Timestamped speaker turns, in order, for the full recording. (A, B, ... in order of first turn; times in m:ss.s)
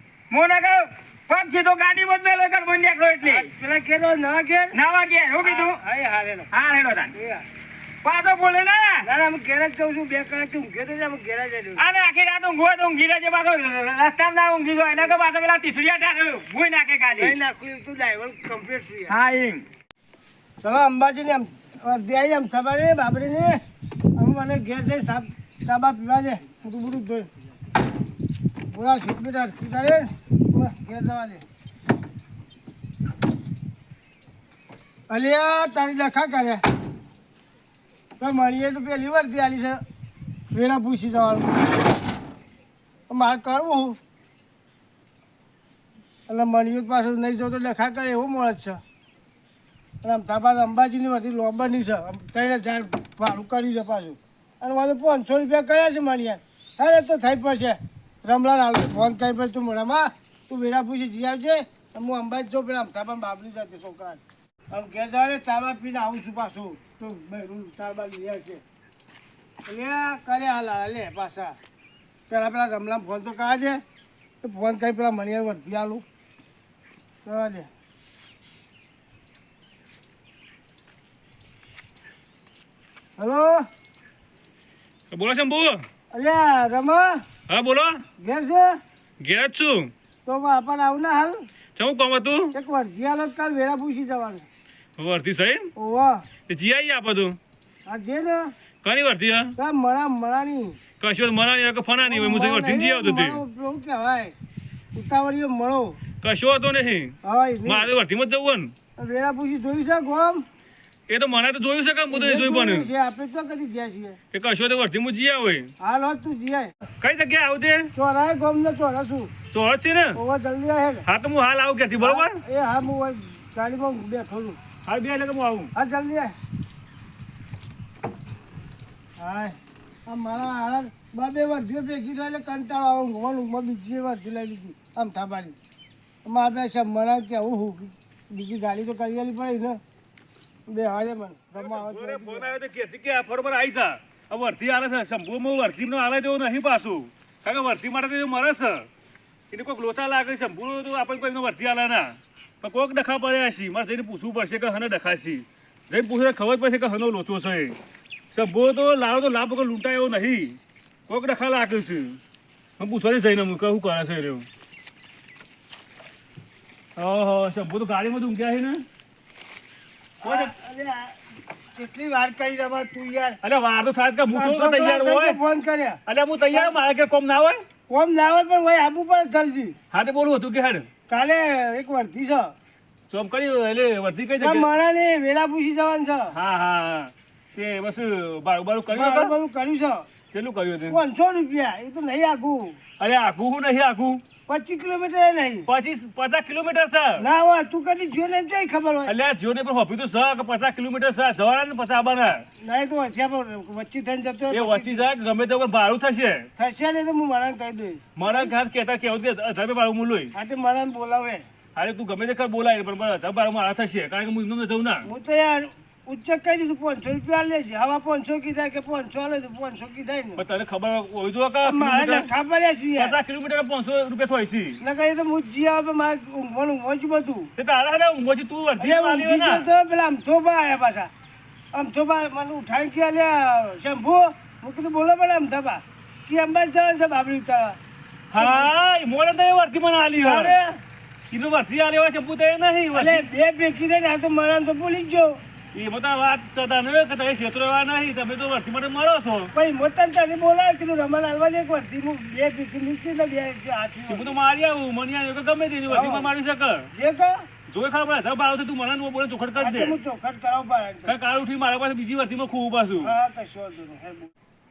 0:00.3-0:03.5 A
0:03.2-0:04.8 B
0:04.7-0:05.8 A
0:05.4-0:06.5 B
0:06.5-0:07.1 A
0:07.1-0:07.4 B
0:08.0-0:09.0 A
0:09.0-0:11.8 B
0:11.8-0:17.4 A
0:17.2-0:19.2 B
0:19.1-0:19.6 A
0:20.6-0:23.6 B
0:24.2-0:27.3 B
0:28.7-0:31.4 B
0:35.1-0:36.6 B
0:38.2-0:39.8 B
0:40.5-0:41.7 B
0:43.1-0:44.0 B
0:46.3-0:48.8 B
0:50.0-1:08.6 B
1:09.7-1:11.6 B
1:12.3-1:13.8 B
1:14.4-1:16.0 B
1:17.2-1:17.7 B
1:23.2-1:23.6 B
1:25.1-1:25.8 C
1:26.1-1:27.2 B
1:27.5-1:28.0 C
1:28.2-1:28.8 B
1:29.2-1:29.9 C
1:30.3-1:31.4 B
1:31.8-1:32.5 C
1:32.5-1:34.5 B
1:35.0-1:35.7 C
1:35.8-1:36.2 B
1:36.5-1:37.4 C
1:37.9-1:38.5 B
1:38.8-1:39.5 C
1:39.6-1:40.8 B
1:41.0-1:43.4 C
1:42.0-1:44.4 B
1:45.0-1:46.0 B
1:46.2-1:47.2 C
1:47.2-1:47.9 B
1:47.7-1:48.7 C
1:49.0-1:50.4 B
1:51.1-1:52.9 C
1:52.1-1:54.2 B
1:54.3-1:55.7 C
1:55.8-1:56.7 B
1:57.0-1:57.9 C
1:58.0-1:59.3 B
1:59.5-2:00.2 C
2:00.2-2:01.0 B
2:01.1-2:02.4 C
2:02.0-2:04.6 B
2:04.8-2:05.7 C
2:05.8-2:06.3 B
2:09.2-2:09.6 B
2:10.1-2:15.6 B
2:16.2-2:19.8 B
2:20.7-2:22.5 B
2:21.6-2:28.9 C
2:29.5-2:37.8 C
2:38.3-2:42.2 C
2:42.8-2:44.5 C
2:47.0-2:48.8 C
2:50.2-2:51.2 B
2:50.2-2:50.5 C
2:51.7-2:53.4 B
2:53.4-2:55.4 C
2:54.3-2:56.0 B
2:56.1-2:57.6 C
2:57.9-2:59.8 B
2:59.9-3:00.9 C
3:01.1-3:02.5 B
3:03.1-3:04.7 C
3:04.4-3:06.3 B
3:06.3-3:09.3 C
3:08.9-3:10.0 B
3:10.3-3:11.0 C
3:10.9-3:12.8 B
3:13.0-3:14.2 C
3:14.5-3:15.7 B
3:15.7-3:17.2 C
3:17.2-3:19.1 B
3:19.1-3:22.4 C
3:22.6-3:25.1 B
3:24.5-3:26.5 C
3:26.6-3:28.5 B
3:28.2-3:30.3 C
3:30.3-3:31.4 B
3:31.8-3:35.1 C
3:35.0-3:40.4 B
3:40.4-3:42.3 C
3:41.6-3:43.2 B
3:43.0-3:44.8 C
3:44.8-3:47.5 B
3:47.6-3:49.7 C
3:48.8-3:51.1 B
3:51.7-3:57.8 B
3:58.3-4:00.6 C
3:58.4-3:58.7 B
4:00.2-4:00.8 B
4:01.3-4:03.3 C
4:02.9-4:05.4 B
4:05.7-4:09.5 C
4:09.5-4:14.4 B
4:14.1-4:16.9 C
4:15.9-4:16.3 B
4:16.9-4:17.4 B
4:17.7-4:20.0 C
4:19.6-4:21.1 B
4:21.1-4:23.1 C
4:23.0-4:24.3 B